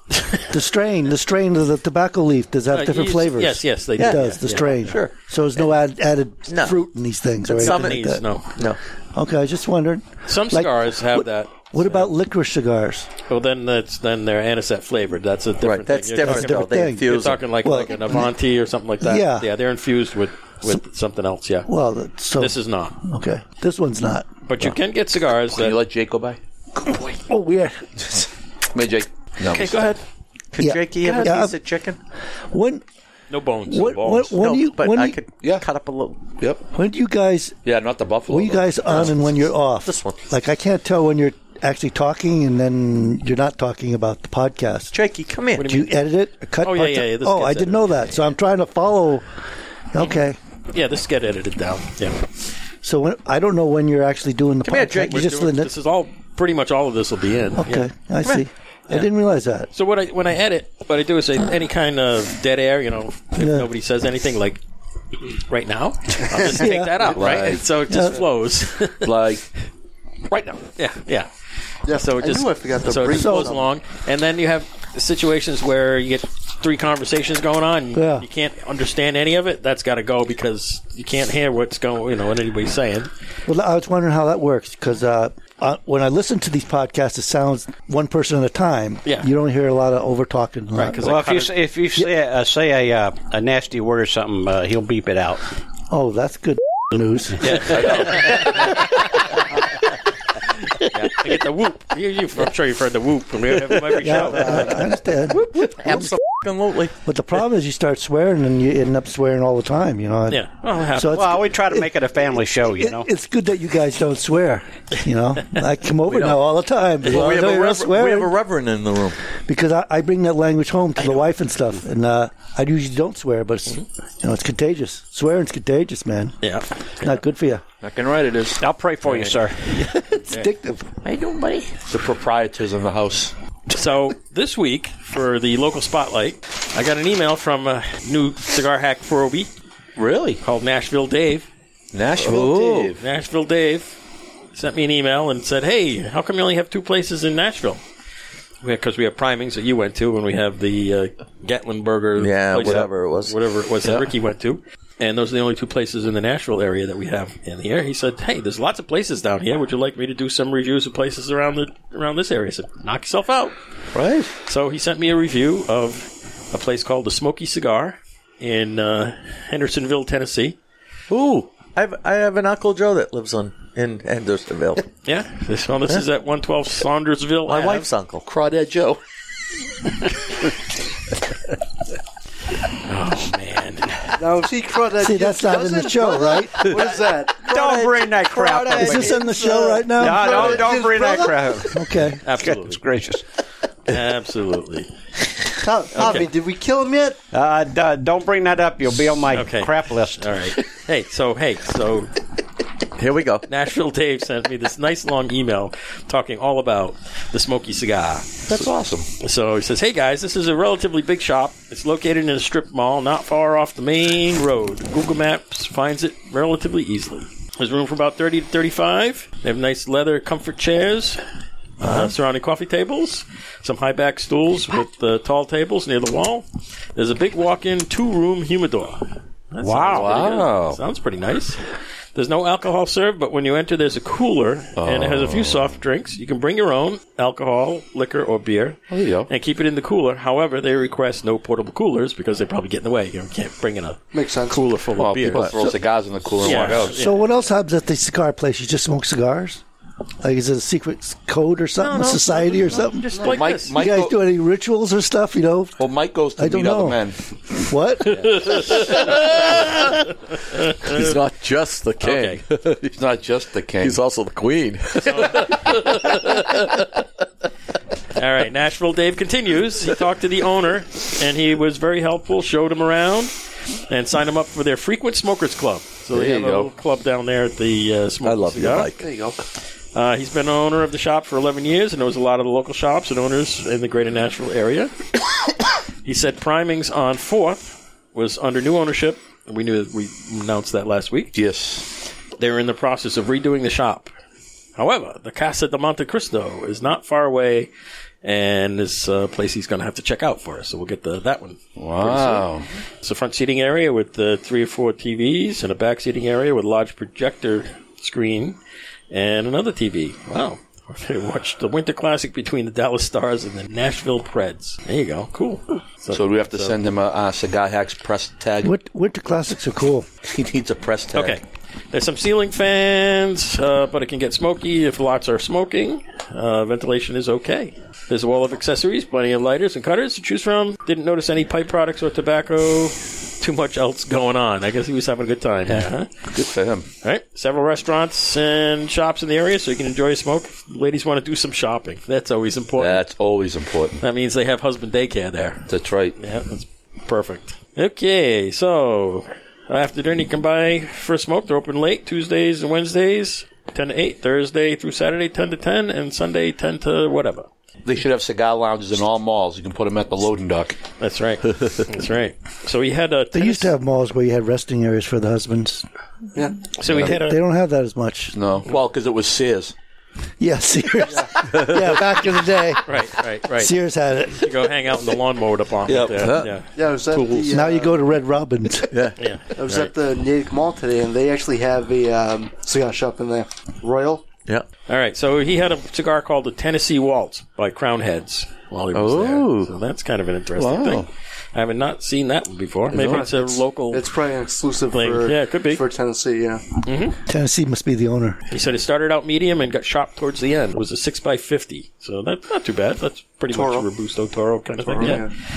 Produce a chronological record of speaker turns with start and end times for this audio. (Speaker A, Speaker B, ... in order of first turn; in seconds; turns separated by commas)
Speaker A: 0.5-8.2, Speaker B: 2.7-5.0, Speaker C: 4.0-5.7, Speaker C: 6.5-6.8, Speaker C: 7.5-8.8, Speaker B: 7.5-8.5, Speaker A: 9.1-13.1, Speaker B: 10.3-12.1, Speaker B: 13.3-21.7, Speaker C: 15.6-17.4, Speaker A: 16.2-18.3, Speaker A: 19.0-19.5, Speaker A: 21.7-24.8, Speaker B: 22.4-23.0, Speaker B: 24.5-25.8, Speaker D: 25.5-26.4, Speaker A: 26.8-28.2, Speaker D: 28.1-29.9, Speaker B: 29.5-30.0, Speaker C: 30.5-32.0, Speaker A: 30.6-31.6, Speaker A: 32.5-32.8, Speaker B: 33.3-34.4, Speaker A: 33.7-35.2, Speaker C: 34.4-36.3, Speaker A: 36.7-37.6, Speaker D: 37.6-39.0, Speaker A: 38.3-44.9, Speaker C: 39.8-40.2, Speaker C: 44.9-45.8, Speaker B: 45.5-45.9, Speaker A: 45.6-49.3, Speaker B: 46.6-48.3, Speaker A: 49.9-50.4, Speaker B: 50.0-52.2, Speaker A: 52.8-55.7, Speaker C: 54.6-55.5, Speaker B: 55.0-57.9, Speaker A: 57.5-59.7, Speaker B: 59.7-64.6, Speaker A: 63.4-63.7, Speaker B: 65.3-69.1, Speaker E: 66.3-66.6, Speaker A: 66.4-67.2, Speaker D: 67.0-67.6, Speaker A: 67.9-68.2, Speaker D: 69.0-69.5, Speaker D: 70.3-70.6, Speaker B: 70.8-71.3, Speaker E: 71.8-73.7, Speaker B: 71.9-83.1, Speaker A: 73.1-73.6, Speaker A: 77.9-78.3, Speaker A: 83.5-91.0, Speaker B: 90.7-91.5, Speaker F: 91.0-95.4, Speaker A: 95.9-97.9, Speaker B: 97.4-98.8, Speaker D: 97.5-98.8, Speaker B: 100.9-104.9, Speaker A: 104.0-106.2, Speaker C: 105.3-106.9, Speaker A: 107.0-111.9, Speaker B: 110.3-111.5, Speaker F: 111.1-113.0, Speaker A: 112.8-118.3, Speaker B: 116.1-116.4, Speaker B: 117.0-117.3, Speaker C: 117.0-119.2, Speaker A: 119.5-126.4, Speaker B: 126.4-127.2, Speaker A: 127.0-127.6, Speaker D: 127.8-128.6, Speaker F: 128.6-129.6, Speaker B: 129.1-129.4, Speaker A: 129.7-130.9, Speaker D: 131.1-133.3, Speaker B: 133.7-139.5, Speaker D: 140.0-140.4, Speaker B: 140.4-141.5, Speaker D: 141.9-143.0, Speaker C: 142.2-142.9, Speaker B: 143.0-143.9, Speaker B: 144.5-147.8, Speaker B: 148.6-163.6, Speaker C: 152.2-153.4, Speaker C: 163.9-164.3, Speaker B: 164.5-170.6, Speaker C: 171.1-174.9, Speaker B: 175.1-177.9, Speaker C: 177.5-178.3, Speaker D: 178.3-179.0, Speaker B: 182.8-184.2, Speaker E: 184.2-187.4, Speaker A: 185.0-186.7, Speaker F: 187.4-193.2, Speaker C: 187.4-189.2, Speaker A: 188.7-190.4, Speaker E: 190.1-191.7, Speaker A: 191.7-192.2, Speaker B: 192.2-192.8, Speaker B: 193.9-194.9, Speaker E: 195.6-197.2, Speaker B: 195.9-196.3, Speaker F: 197.3-200.4, Speaker B: 199.3-202.1, Speaker C: 202.9-203.4, Speaker B: 203.5-208.5, Speaker D: 208.5-209.1, Speaker B: 209.2-221.2, Speaker C: 221.8-222.1, Speaker B: 221.8-226.4, Speaker B: 226.9-231.6, Speaker D: 229.6-230.8, Speaker B: 232.1-245.5, Speaker D: 234.8-235.7, Speaker D: 238.9-239.3, Speaker E: 244.1-244.6, Speaker D: 245.0-246.9, Speaker A: 246.4-249.6, Speaker B: 246.4-247.1, Speaker A: 250.2-253.1, Speaker B: 251.8-253.8, Speaker E: 253.1-253.4, Speaker D: 253.2-254.2, Speaker A: 253.7-255.8, Speaker D: 255.8-257.2, Speaker A: 256.4-257.0, Speaker A: 257.6-258.6, Speaker D: 258.1-259.0, Speaker B: 258.3-259.9, Speaker C: 259.0-259.9, Speaker B: 260.5-261.2, Speaker C: 260.7-262.9, Speaker B: 262.0-262.4, Speaker D: 262.9-264.0, Speaker C: 263.8-266.8, Speaker B: 265.1-266.2, Speaker B: 268.1-273.3, Speaker B: 273.9-278.9, Speaker D: 276.1-276.7, Speaker C: 278.2-279.1, Speaker E: 279.0-279.4, Speaker B: 279.9-284.9, Speaker B: 286.0-291.3, Speaker D: 291.3-291.9, Speaker B: 292.4-294.1, Speaker B: 294.8-297.7, Speaker B: 298.2-302.5, Speaker D: 301.8-302.7, Speaker B: 303.0-308.6, Speaker B: 309.1-316.8, Speaker D: 316.1-318.7, Speaker A: 318.6-320.1, Speaker D: 320.3-321.4, Speaker B: 321.1-336.1, Speaker D: 336.3-336.9, Speaker B: 337.0-343.0, Speaker D: 342.8-344.0, Speaker B: 344.0-345.6, Speaker D: 345.7-346.2, Speaker B: 346.2-357.5, Speaker D: 357.8-360.8, Speaker B: 361.0-363.7, Speaker A: 363.3-365.9, Speaker B: 366.7-367.4, Speaker D: 366.9-367.2, Speaker A: 366.9-368.3, Speaker D: 368.3-369.7, Speaker A: 370.4-372.9, Speaker E: 371.1-371.4, Speaker C: 371.4-371.8, Speaker B: 372.8-373.7, Speaker A: 373.6-374.7, Speaker B: 374.3-377.5, Speaker D: 375.9-376.5, Speaker C: 376.2-376.5, Speaker E: 376.7-378.0, Speaker A: 377.5-378.9, Speaker C: 378.9-379.2, Speaker B: 379.2-379.9, Speaker E: 379.6-384.3, Speaker B: 384.9-394.1, Speaker C: 388.9-389.7, Speaker D: 390.6-391.1, Speaker D: 392.9-393.2, Speaker E: 392.9-396.7, Speaker B: 394.9-395.8, Speaker B: 396.8-397.2, Speaker A: 397.3-398.4, Speaker B: 398.5-405.3, Speaker E: 403.5-403.9, Speaker E: 404.8-405.3